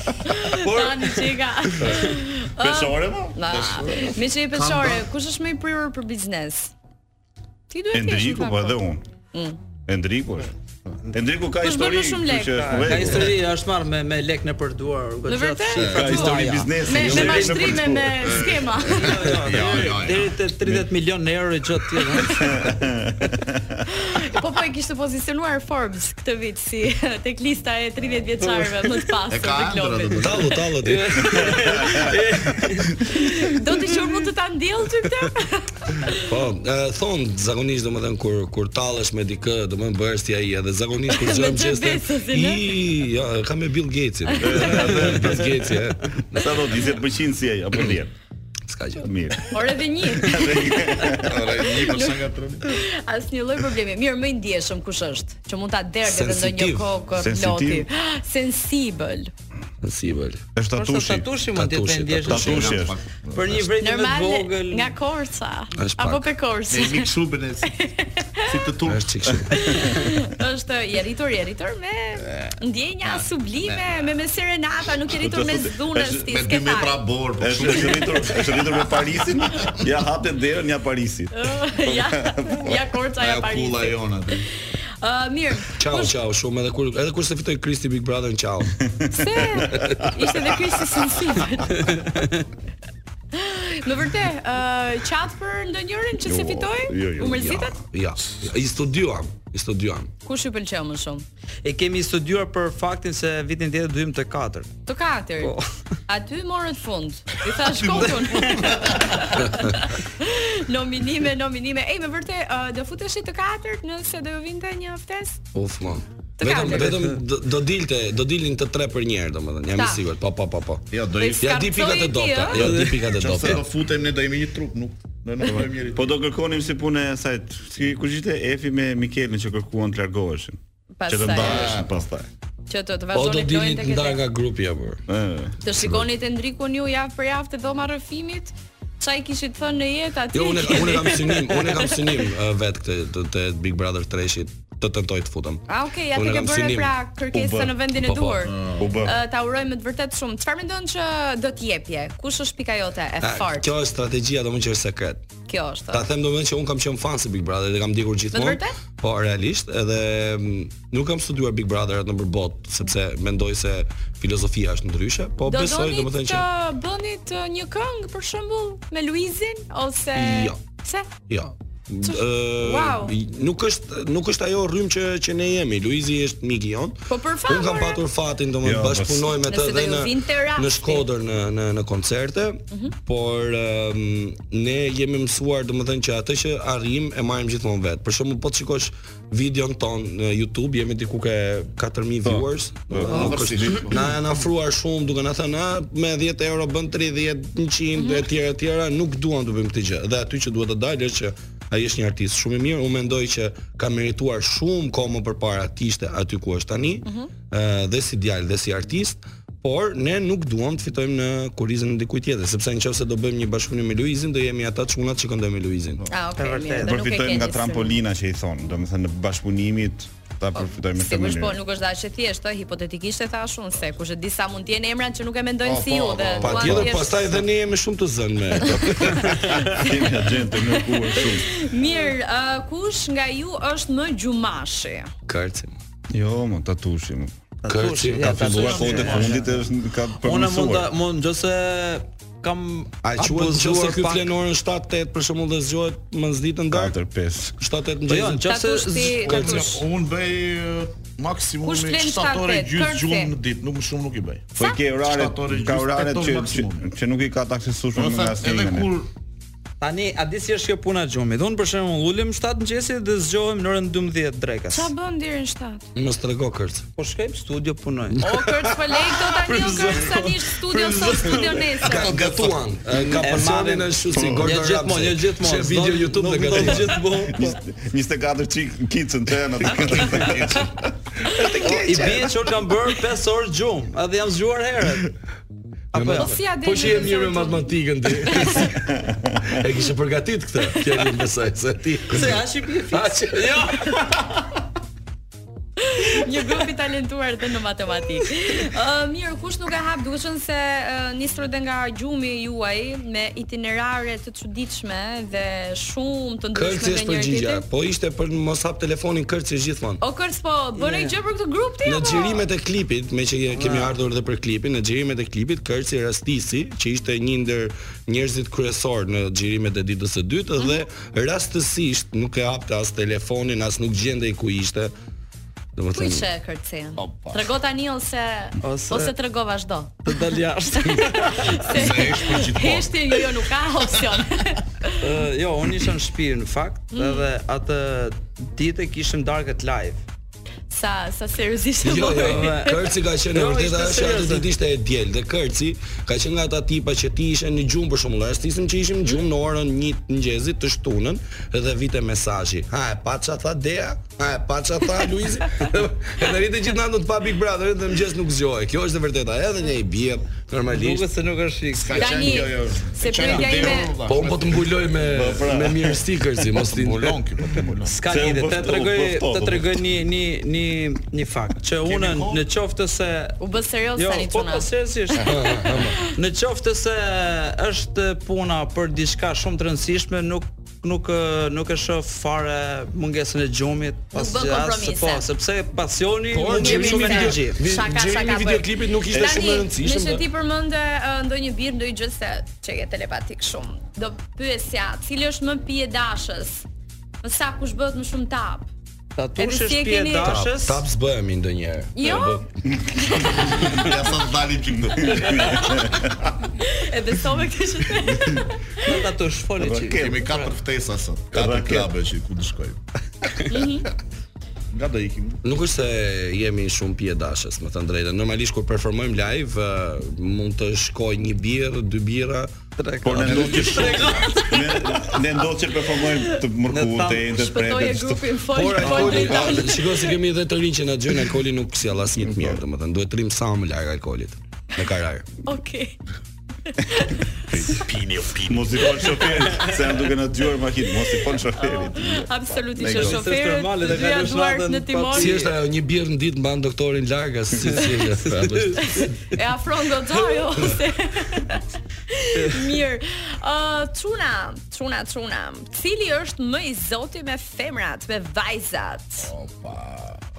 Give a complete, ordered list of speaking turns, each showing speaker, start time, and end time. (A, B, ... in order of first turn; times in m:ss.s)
0:00.2-0:06.7 A
0:00.6-0:01.4 B
0:01.8-0:03.4 C
0:03.5-0:05.1 D
0:07.7-0:08.8 A
0:07.9-0:09.0 C
0:09.3-0:09.6 A
0:09.9-0:10.5 C
0:11.1-0:13.4 C
0:11.6-0:12.9 A
0:12.5-0:17.9 B
0:15.3-0:19.3 A
0:15.8-0:16.4 D
0:15.8-0:18.4 C
0:18.2-0:20.4 D
0:18.9-0:22.6 B
0:22.2-0:23.8 C
0:23.9-0:30.5 A
0:28.4-0:29.1 B
0:29.3-0:30.6 D
0:30.2-0:31.6 E
0:30.8-0:33.5 B
0:31.5-0:32.0 C
0:33.0-0:36.3 A
0:36.2-0:46.8 E
0:41.1-0:42.8 A
0:44.3-0:44.9 A
0:44.4-0:45.7 C
0:46.3-0:48.1 C
0:48.7-0:49.1 E
0:49.0-0:49.6 C
0:49.5-0:59.3 A
0:50.1-0:51.5 C
0:51.2-0:52.8 D
0:56.0-0:56.9 E
0:57.1-0:57.9 C
0:59.8-1:00.4 E
1:00.6-1:01.3 C
1:00.7-1:02.8 B
1:01.5-1:02.8 E
1:02.2-1:03.0 C
1:02.3-1:03.7 D
1:03.3-1:04.9 B
1:03.8-1:07.1 A
1:05.8-1:06.3 E
1:06.7-1:07.8 D
1:07.6-1:08.6 A
1:08.4-1:09.4 D
1:08.8-1:09.8 E
1:09.4-1:10.1 C
1:09.5-1:17.0 A
1:12.2-1:12.6 D
1:13.1-1:13.8 D
1:15.1-1:16.2 C
1:16.2-1:19.8 D
1:17.4-1:22.8 C
1:21.3-1:24.0 A
1:23.2-1:24.5 D
1:25.0-1:26.1 A
1:25.8-1:28.8 E
1:29.0-1:30.4 C
1:29.1-1:31.9 A
1:29.7-1:30.0 E
1:31.8-1:32.3 B
1:33.3-1:37.8 A
1:36.2-1:37.6 C
1:37.2-1:40.1 E
1:40.2-1:41.2 A
1:41.6-1:44.7 B
1:44.9-1:45.6 A
1:45.4-1:45.7 B
1:46.1-1:55.4 A
1:47.6-1:49.3 D
1:48.2-1:48.8 B
1:55.5-2:03.6 E
1:56.4-1:57.0 A
1:59.8-2:00.0 A
2:00.9-2:01.5 D
2:01.2-2:02.8 A
2:02.5-2:03.0 B
2:03.1-2:06.1 D
2:05.9-2:10.6 C
2:11.0-2:11.8 A
2:11.1-2:12.3 C
2:11.3-2:11.9 D
2:12.7-2:14.2 A
2:13.1-2:15.0 E
2:15.1-2:15.6 C
2:15.6-2:22.0 A
2:20.3-2:27.0 E
2:25.7-2:33.7 A
2:27.3-2:27.8 C
2:28.0-2:28.5 E
2:28.5-2:29.0 D
2:28.8-2:29.2 C
2:33.2-2:35.2 E
2:35.5-2:36.1 A
2:35.9-2:46.5 E
2:38.3-2:38.8 A
2:45.4-2:51.1 A
2:50.1-2:50.6 E
2:51.3-3:36.0 E
2:52.0-2:53.1 A
2:57.1-2:58.0 A
2:58.6-2:59.3 C
2:59.4-3:01.0 A
3:12.2-3:13.9 C
3:13.0-3:14.1 D
3:18.0-3:18.2 A
3:36.1-3:38.0 A
3:36.4-3:37.0 B
3:36.8-3:41.6 C
3:40.5-3:47.4 A
3:45.6-3:47.0 D
3:46.4-3:49.7 E
3:49.6-3:50.1 A
3:49.7-3:51.6 C
3:50.6-3:55.1 A
3:55.3-3:55.8 E
3:56.1-3:57.3 C
3:57.6-3:59.5 B
3:57.7-3:59.4 E
3:58.2-4:00.9 C
4:00.2-4:04.3 B
4:03.0-4:07.0 E
4:06.7-4:07.5 C
4:07.6-4:08.4 E
4:08.1-4:09.7 B
4:08.4-4:09.8 A
4:09.2-4:14.5 D
4:11.6-4:13.3 A
4:14.6-4:18.9 C
4:15.0-4:16.9 D
4:17.9-4:19.1 D
4:19.8-4:24.9 B
4:24.7-4:25.9 A
4:25.9-4:26.9 E
4:27.0-4:28.3 B
4:28.2-4:28.8 E
4:28.2-4:32.2 A
4:29.4-4:31.6 B
4:31.8-4:37.0 E
4:31.8-4:32.6 D
4:33.0-4:37.6 B
4:34.1-4:34.5 C
4:37.2-4:40.7 C
4:39.7-4:40.9 D
4:41.2-4:42.5 E
4:41.3-4:41.6 A
4:41.6-4:45.1 B
4:45.9-4:46.4 B
4:45.9-4:54.0 E
4:46.1-4:48.7 A
4:49.0-4:49.5 C
4:52.1-4:54.3 B
4:55.8-5:07.6 A
5:06.5-5:10.0 E
5:10.0-5:12.4 A
5:10.8-5:11.1 B
5:11.8-5:24.9 E
5:13.5-5:13.9 B
5:25.8-5:26.3 E
5:25.9-5:35.2 A
5:27.0-5:27.5 D
5:28.6-5:29.1 B
5:30.1-5:31.8 B
5:31.6-5:33.4 D
5:35.0-5:40.0 B
5:36.9-5:37.3 A
5:40.7-5:42.8 A
5:41.8-6:01.1 E
5:42.1-5:44.5 B
6:00.7-6:02.4 B
6:01.7-6:04.6 D
6:01.9-6:03.9 A
6:04.0-6:07.2 E
6:05.0-6:06.0 C
6:06.5-6:08.0 D
6:07.9-6:13.4 B
6:08.0-6:09.8 C
6:11.8-6:12.4 D
6:13.4-6:14.7 A
6:14.0-6:15.4 B
6:15.2-6:16.0 E
6:15.7-6:16.1 A
6:16.1-6:27.6 B
6:24.1-6:25.3 A
6:26.3-6:30.2 E
6:26.5-6:36.6 A
6:29.1-6:29.4 C
6:37.2-6:38.7 A
6:39.2-6:40.8 B
6:39.4-6:40.4 A
6:40.2-6:42.5 E
6:41.9-6:43.9 A
6:43.4-6:45.6 D
6:44.9-6:46.3 C
6:45.3-6:49.0 A
6:48.8-6:50.5 B
6:49.6-6:50.2 C
6:49.9-6:52.8 D
6:51.3-6:51.9 C
6:53.5-6:53.9 A
6:54.7-6:55.4 D
6:55.4-7:02.5 E
7:02.8-7:05.1 B
7:03.0-7:08.3 C
7:03.2-7:04.4 D
7:03.2-7:03.5 E
7:06.1-7:06.4 A
7:06.7-7:07.3 B
7:07.3-7:10.1 A
7:08.5-7:15.3 E
7:12.2-7:12.6 C
7:15.4-7:16.0 A
7:16.6-7:17.9 A
7:17.5-7:17.8 C
7:17.9-7:18.6 E
7:18.0-7:18.4 D
7:18.4-7:23.2 C
7:21.6-7:25.4 A
7:22.9-7:25.5 B
7:25.1-7:29.1 E
7:27.7-7:29.2 B
7:28.8-7:39.3 A
7:32.4-7:32.7 B
7:39.2-7:40.2 D